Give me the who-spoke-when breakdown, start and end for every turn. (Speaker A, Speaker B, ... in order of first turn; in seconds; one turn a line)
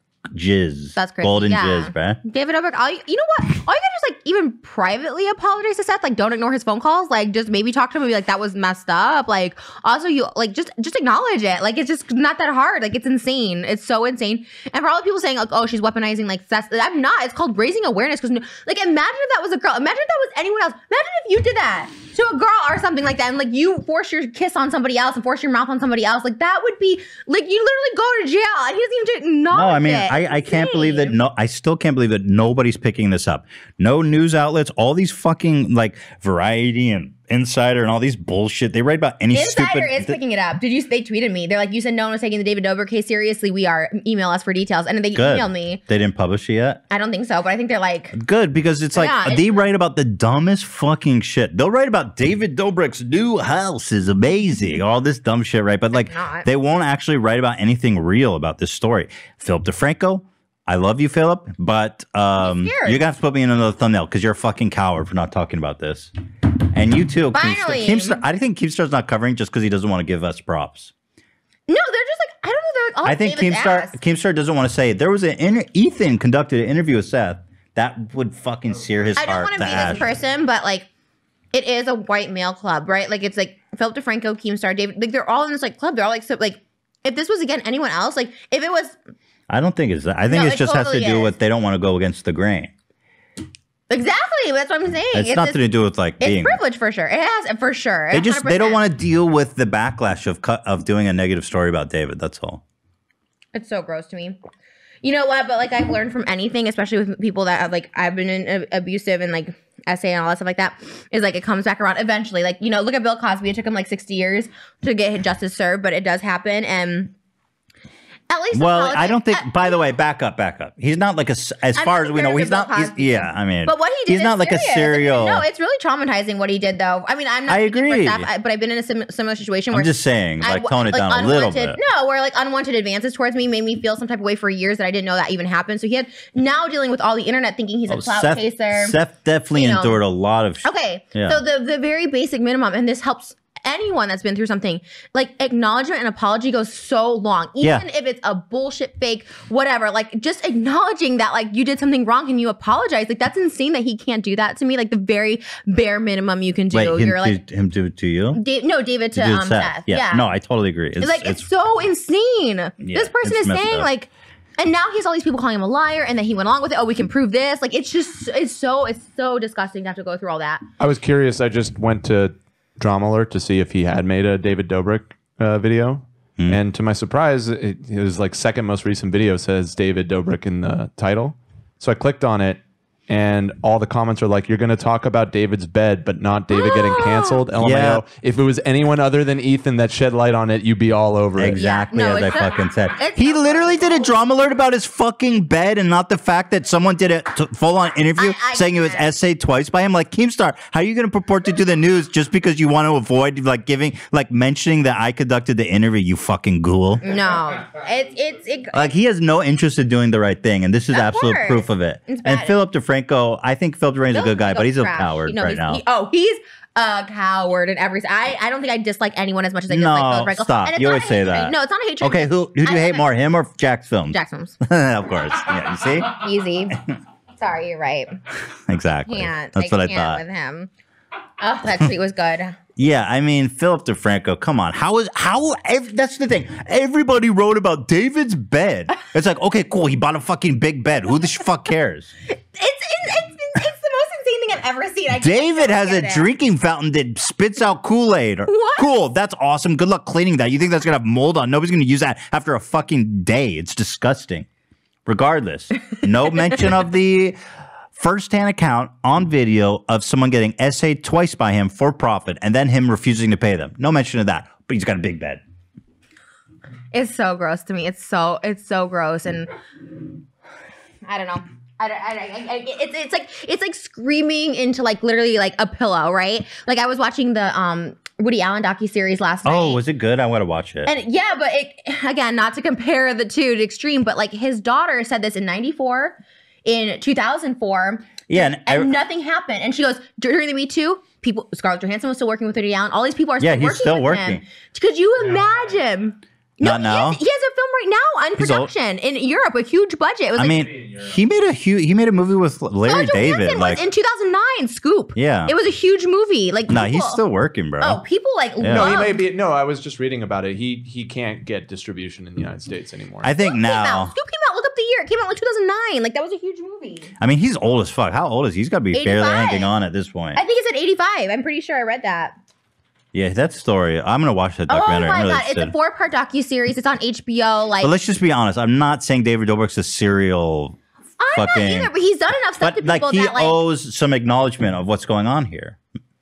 Speaker A: 0.3-2.2
Speaker B: 1.0-31.2
Speaker A: 29.5-40.2
Speaker B: 39.3-45.8
Speaker A: 45.1-46.8
Speaker B: 46.9-48.1
Speaker A: 48.1-66.1
Speaker B: 48.9-49.6
Speaker B: 55.9-56.5
Speaker B: 62.4-63.0
Speaker A: 66.7-70.9
Speaker B: 67.3-68.2
Speaker B: 71.7-74.0
Speaker A: 73.0-80.1
Speaker C: 78.7-79.1
Speaker B: 79.2-80.9
Speaker B: 81.5-89.0
Speaker A: 89.5-92.7
Speaker B: 90.3-91.3
Speaker B: 93.9-95.6
Speaker A: 95.1-96.6
Speaker B: 96.2-98.8
Speaker A: 98.1-102.6
Speaker B: 103.5-104.4
Speaker B: 105.0-117.1
Speaker B: 118.3-119.8
Speaker A: 118.5-125.5
Speaker B: 121.7-139.0
Speaker A: 127.5-128.3
Speaker A: 129.7-131.8
Speaker A: 137.9-141.4
Speaker B: 139.5-140.0
Speaker B: 140.6-157.4
Speaker A: 147.6-147.9
Speaker A: 156.7-158.4
Speaker B: 158.3-160.3
Speaker A: 159.2-161.5
Speaker B: 161.0-170.6
Speaker A: 162.8-163.9
Speaker C: 170.8-191.6
Speaker B: 186.5-187.3
Speaker A: 187.6-188.0
Speaker A: 191.4-207.2
Speaker B: 191.6-194.1
Speaker B: 198.2-199.1
Speaker B: 207.0-208.9
Speaker A: 208.7-215.8
Speaker B: 210.9-212.6
Speaker B: 214.1-223.0
Speaker A: 219.7-226.1
Speaker B: 224.1-224.6
Speaker B: 226.1-226.8
Speaker B: 227.4-228.2
Speaker A: 228.7-230.2
Speaker B: 229.1-230.7
Speaker B: 231.4-232.6
Speaker A: 232.8-242.1
Speaker B: 242.3-246.3
Speaker A: 245.1-254.5
Speaker B: 248.5-248.9
Speaker A: 255.1-257.4
Speaker A: 257.9-265.4
Speaker B: 266.9-269.5
Speaker B: 271.1-279.8
Speaker A: 279.4-280.9
Speaker B: 280.9-300.7
Speaker A: 288.3-288.9
Speaker A: 293.4-294.4
Speaker C: 295.3-295.7
Speaker A: 296.6-297.2
Speaker A: 298.4-298.7
Speaker A: 300.4-303.8
Speaker C: 300.4-301.2
Speaker B: 302.8-307.2
Speaker A: 305.2-305.5
Speaker A: 306.7-308.0
Speaker B: 307.8-309.2
Speaker A: 308.6-309.1
Speaker C: 308.7-313.4
Speaker A: 313.2-314.1
Speaker B: 313.4-317.1
Speaker A: 317.2-320.4
Speaker B: 318.9-319.7
Speaker B: 320.4-322.4
Speaker A: 323.1-325.7
Speaker B: 324.7-327.9
Speaker A: 327.8-330.8
Speaker B: 331.2-333.6
Speaker A: 331.3-331.9
Speaker A: 332.6-335.8